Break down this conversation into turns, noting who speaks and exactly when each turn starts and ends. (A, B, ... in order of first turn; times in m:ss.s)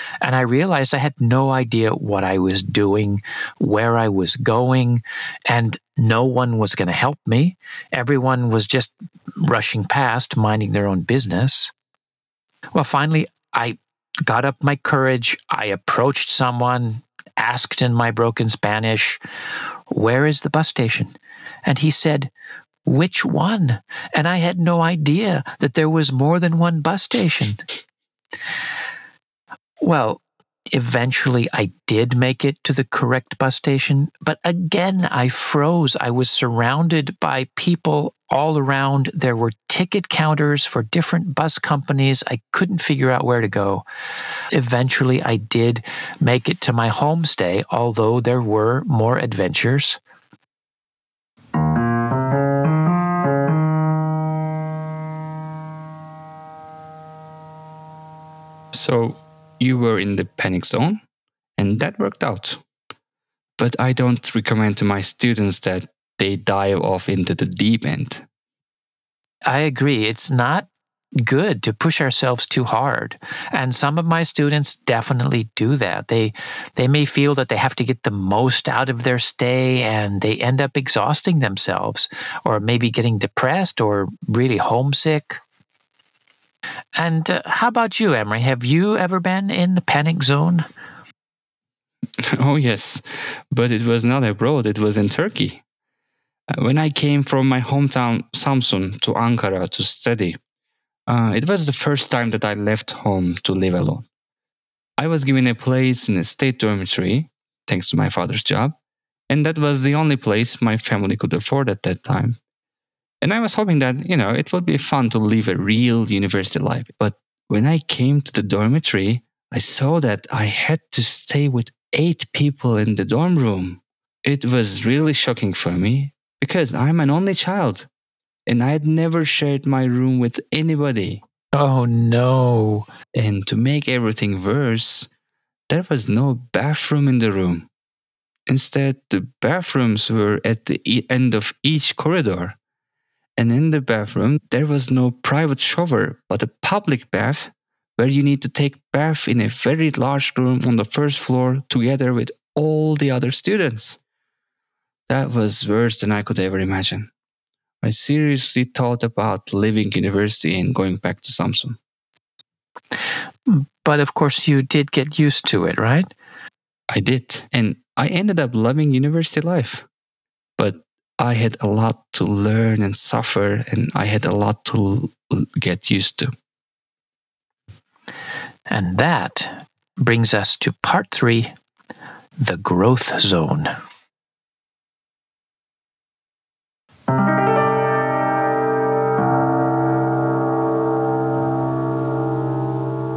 0:00.2-0:11.7 A
0:12.7-0:19.2 A
0:19.9-0:21.1 A
0:21.6-0:22.3 A
0:22.8-0:27.6 A
0:29.8-0:43.8 A
0:44.5-0:50.0 A
0:58.7-1:01.0 B
1:01.6-1:02.6 B
1:03.6-1:08.2 B
1:09.4-1:10.7 A
1:11.2-1:25.4 A
1:27.0-1:30.6 A
1:32.2-1:35.6 B
1:36.5-1:40.4 B
1:41.1-1:44.1 B
1:45.0-1:48.7 B
1:49.3-1:52.4 B
1:53.2-2:07.9 B
2:08.4-2:11.2 B
2:11.5-2:12.8 A
2:13.1-2:15.1 B
2:15.7-2:17.7 B
2:18.5-2:22.6 B
2:23.4-2:34.0 B
2:35.1-2:37.1 B
2:37.8-2:41.8 B
2:43.5-2:46.1 A
2:46.9-2:49.9 B
2:50.6-2:56.3 B
2:58.7-3:01.5 A
3:02.4-3:03.7 A